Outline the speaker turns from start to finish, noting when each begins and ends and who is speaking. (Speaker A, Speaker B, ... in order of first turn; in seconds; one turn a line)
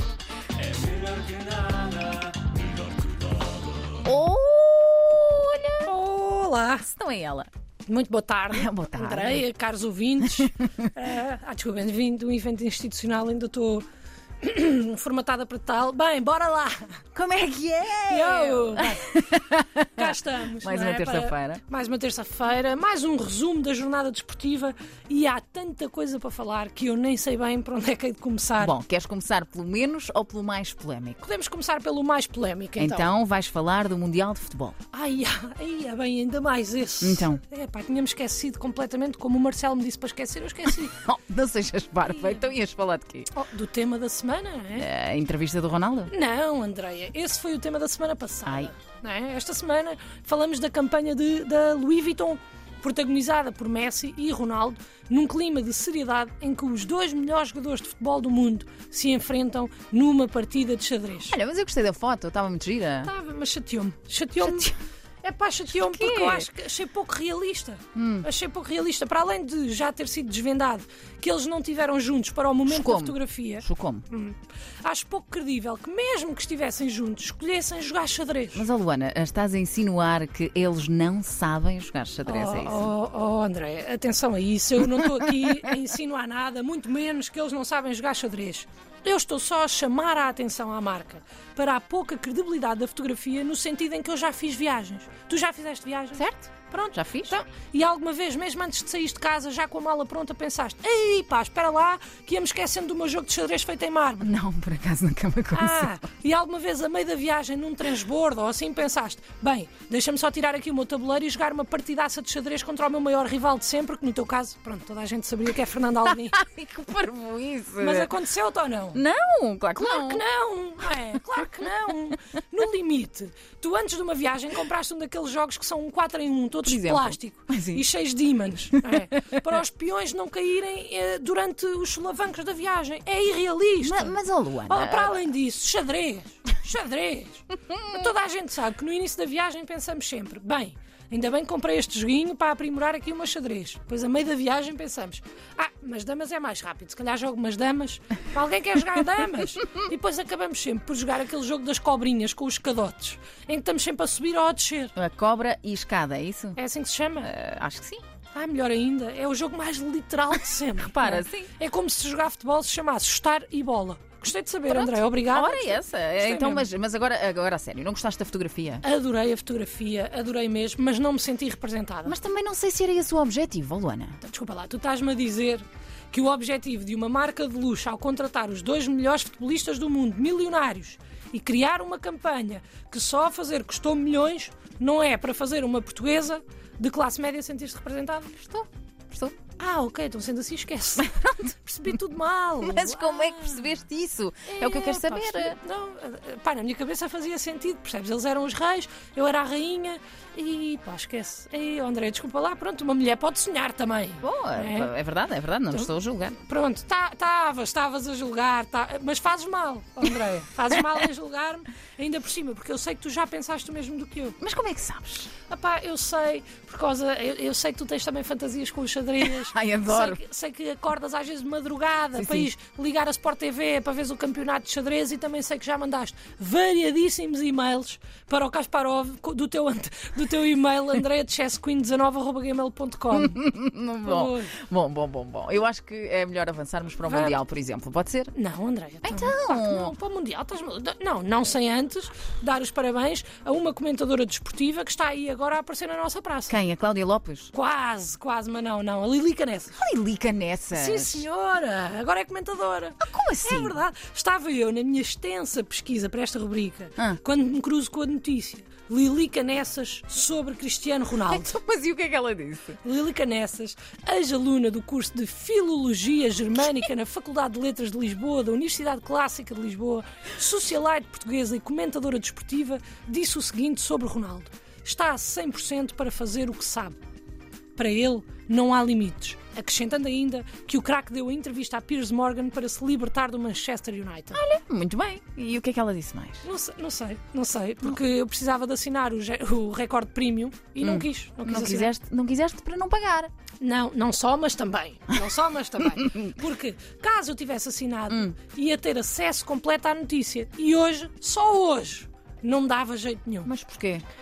Speaker A: 0.6-3.4
Speaker B: 4.0-5.9
Speaker C: 5.8-6.9
Speaker B: 6.8-7.5
Speaker C: 7.9-13.8
Speaker B: 8.5-9.4
Speaker B: 10.3-10.9
Speaker C: 14.4-17.0
Speaker B: 17.1-21.6
Speaker C: 18.1-19.1
Speaker C: 19.9-28.7
Speaker B: 28.6-31.2
Speaker C: 31.2-33.1
Speaker B: 32.8-34.8
Speaker C: 34.9-41.0
Speaker B: 37.0-37.4
Speaker B: 40.9-43.3
Speaker C: 42.1-42.5
Speaker C: 43.3-44.9
Speaker B: 44.8-46.1
Speaker C: 46.1-61.4
Speaker B: 48.5-48.7
Speaker B: 61.3-63.1
Speaker C: 63.0-78.7
Speaker B: 64.4-64.7
Speaker B: 65.9-66.5
Speaker B: 68.0-68.3
Speaker B: 72.7-74.0
Speaker B: 78.5-82.9
Speaker C: 82.3-104.3
Speaker B: 96.2-97.4
Speaker B: 104.2-106.0
Speaker C: 105.5-116.4
Speaker B: 116.0-118.1
Speaker C: 117.8-119.0
Speaker B: 118.9-120.2
Speaker C: 119.8-154.9
Speaker B: 126.7-127.8
Speaker B: 133.8-135.2
Speaker B: 155.0-156.6
Speaker C: 156.6-157.3
Speaker B: 157.2-158.0
Speaker C: 158.3-166.7
Speaker B: 160.8-161.5
Speaker B: 164.7-168.8
Speaker C: 168.8-172.2
Speaker B: 172.1-174.2
Speaker C: 174.2-188.3
Speaker B: 188.4-189.4
Speaker C: 189.6-193.7
Speaker B: 191.0-191.5
Speaker B: 192.6-195.6
Speaker C: 194.5-204.9
Speaker B: 204.2-206.4
Speaker C: 205.7-214.4
Speaker B: 214.4-215.3
Speaker C: 215.5-233.4
Speaker B: 219.2-220.2
Speaker B: 222.2-222.5
Speaker B: 233.1-238.3
Speaker C: 234.0-234.6
Speaker C: 237.0-237.4
Speaker C: 238.3-246.6
Speaker B: 239.0-239.9
Speaker B: 246.5-247.5
Speaker C: 247.5-249.8
Speaker B: 249.8-251.3
Speaker C: 250.7-261.6
Speaker B: 253.1-253.8
Speaker B: 261.3-262.8
Speaker C: 262.8-277.0
Speaker C: 277.8-284.4
Speaker B: 284.3-286.4
Speaker C: 286.4-291.9
Speaker B: 290.8-293.3
Speaker C: 293.6-303.5
Speaker B: 296.0-296.3
Speaker B: 303.4-304.0